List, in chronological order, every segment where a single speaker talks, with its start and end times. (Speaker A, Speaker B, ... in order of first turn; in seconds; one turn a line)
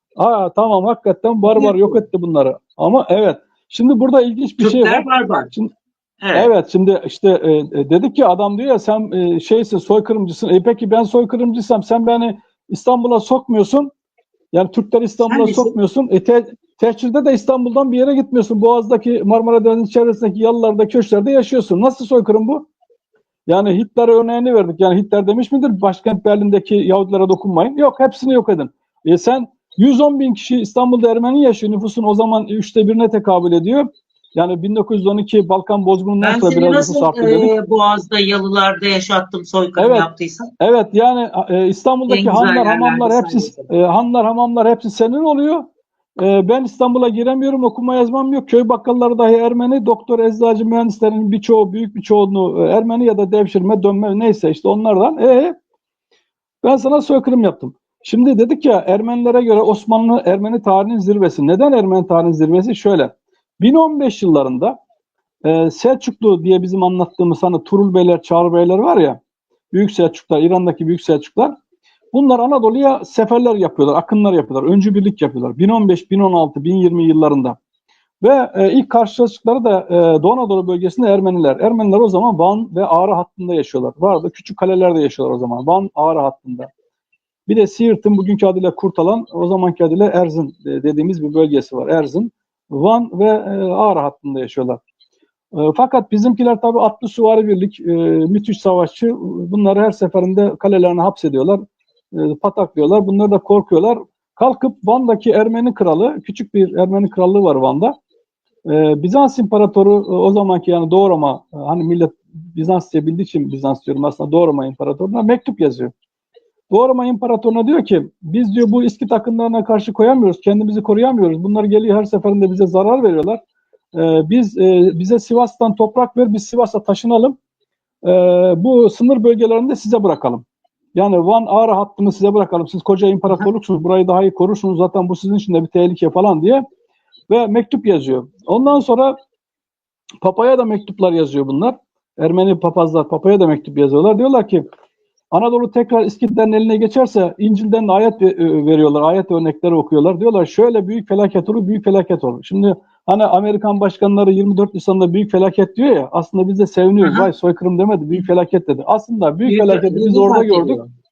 Speaker A: 0.2-5.7
Speaker B: 1.5-2.0
Speaker B: 4.6-5.5
Speaker B: 6.2-6.5
Speaker A: 6.3-13.9
Speaker A: 14.5-22.7
Speaker B: 15.3-15.7
Speaker A: 23.5-37.5
Speaker B: 36.2-40.5
Speaker A: 39.8-40.1
Speaker A: 40.6-45.6
Speaker B: 42.1-43.7
Speaker A: 46.2-55.5
Speaker A: 56.6-64.8
Speaker A: 65.4-69.2
Speaker A: 69.7-71.5
Speaker A: 72.1-77.5
Speaker A: 78.2-86.7
Speaker A: 87.5-94.8
Speaker A: 95.5-101.6
Speaker A: 102.1-107.9
Speaker A: 108.7-115.9
Speaker A: 116.7-123.4
Speaker A: 123.9-127.3
Speaker A: 128.0-130.4
Speaker A: 130.9-136.6
Speaker A: 137.3-139.2
Speaker A: 140.2-144.7
Speaker A: 145.3-160.8
Speaker B: 157.0-157.3
Speaker B: 159.4-160.9